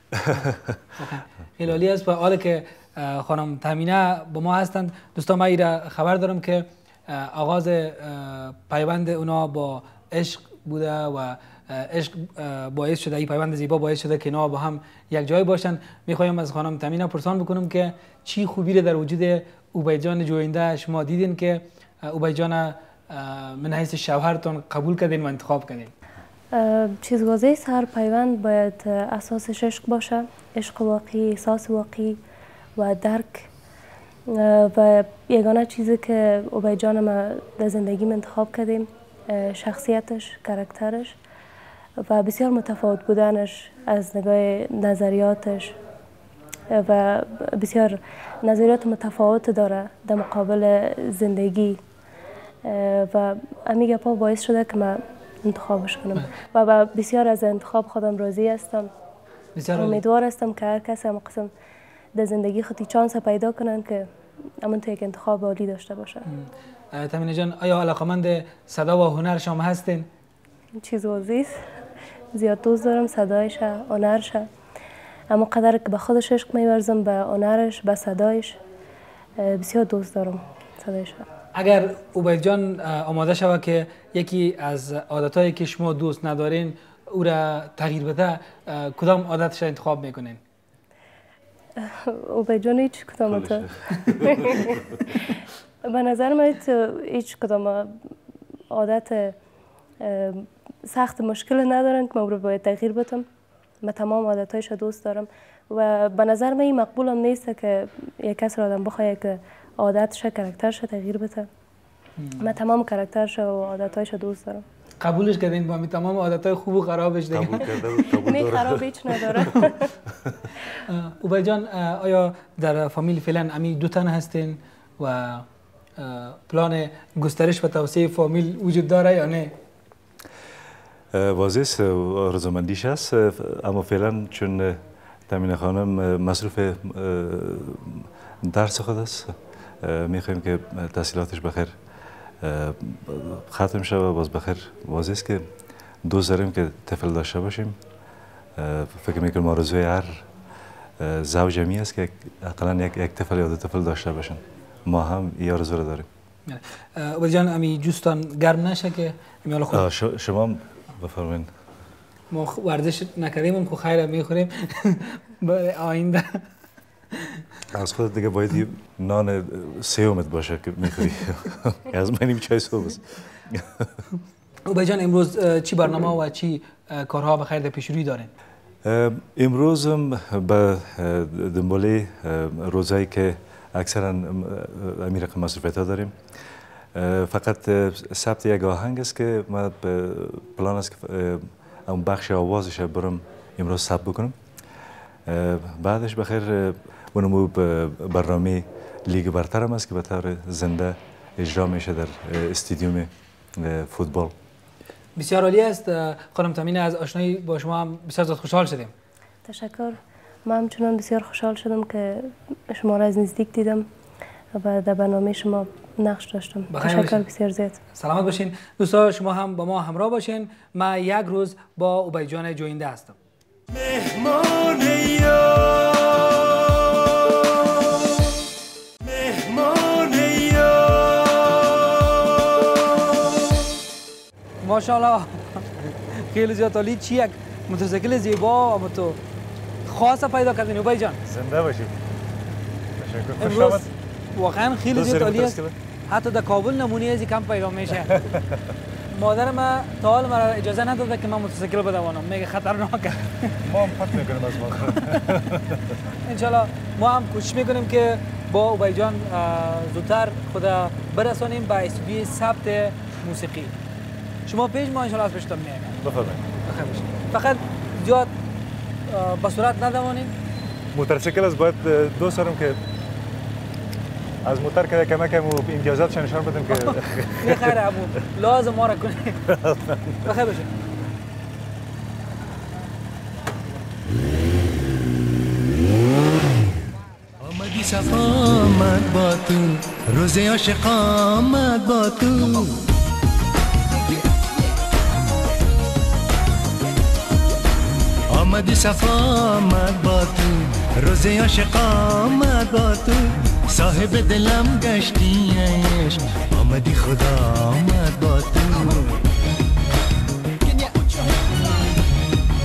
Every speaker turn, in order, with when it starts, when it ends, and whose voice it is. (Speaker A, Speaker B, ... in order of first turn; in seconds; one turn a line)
Speaker A: 0.1-0.8
Speaker B: 1.0-25.9
Speaker C: 26.5-32.2
Speaker C: 32.8-33.5
Speaker C: 34.3-41.1
Speaker C: 42.0-45.8
Speaker C: 46.7-51.8
Speaker C: 52.6-58.9
Speaker B: 59.5-60.0
Speaker C: 59.8-61.5
Speaker C: 62.1-64.1
Speaker C: 64.6-66.2
Speaker B: 66.3-70.1
Speaker C: 70.8-71.6
Speaker C: 72.3-74.5
Speaker C: 75.3-78.6
Speaker C: 79.4-81.2
Speaker B: 81.5-90.4
Speaker C: 91.8-95.3
Speaker A: 93.3-94.7
Speaker C: 95.8-98.0
Speaker C: 98.7-99.4
Speaker C: 100.0-103.3
Speaker C: 103.8-111.5
Speaker B: 112.2-112.5
Speaker C: 112.4-114.6
Speaker B: 115.0-117.7
Speaker A: 117.3-120.4
Speaker C: 117.8-119.9
Speaker B: 120.8-129.6
Speaker A: 131.1-141.7
Speaker A: 142.4-145.4
Speaker A: 146.0-147.8
Speaker A: 148.6-150.2
Speaker A: 151.0-156.1
Speaker B: 156.5-159.8
Speaker A: 159.7-161.5
Speaker B: 162.3-166.5
Speaker B: 167.1-167.4
Speaker A: 167.7-174.0
Speaker B: 174.7-178.3
Speaker A: 178.8-186.2
Speaker A: 186.9-194.4
Speaker A: 195.3-204.3
Speaker B: 205.2-208.9
Speaker C: 209.4-213.9
Speaker C: 214.5-217.8
Speaker B: 216.7-217.2
Speaker B: 217.9-223.2
Speaker A: 230.0-230.5
Speaker B: 234.6-239.2
Speaker B: 239.8-241.2
Speaker A: 241.2-242.0
Speaker A: 242.9-243.9
Speaker B: 243.4-248.3
Speaker A: 244.9-245.8
Speaker A: 248.1-248.7
Speaker B: 249.1-253.6
Speaker A: 253.6-256.0
Speaker B: 254.8-255.3
Speaker B: 256.2-263.7
Speaker B: 264.4-266.0
Speaker A: 266.0-266.5
Speaker B: 266.6-268.3
Speaker B: 269.1-270.3
Speaker A: 270.9-272.8
Speaker A: 274.4-277.8
Speaker B: 276.7-279.5
Speaker A: 279.5-280.3
Speaker B: 280.2-280.7
Speaker D: 287.4-292.9
Speaker D: 298.3-309.1
Speaker B: 310.8-311.2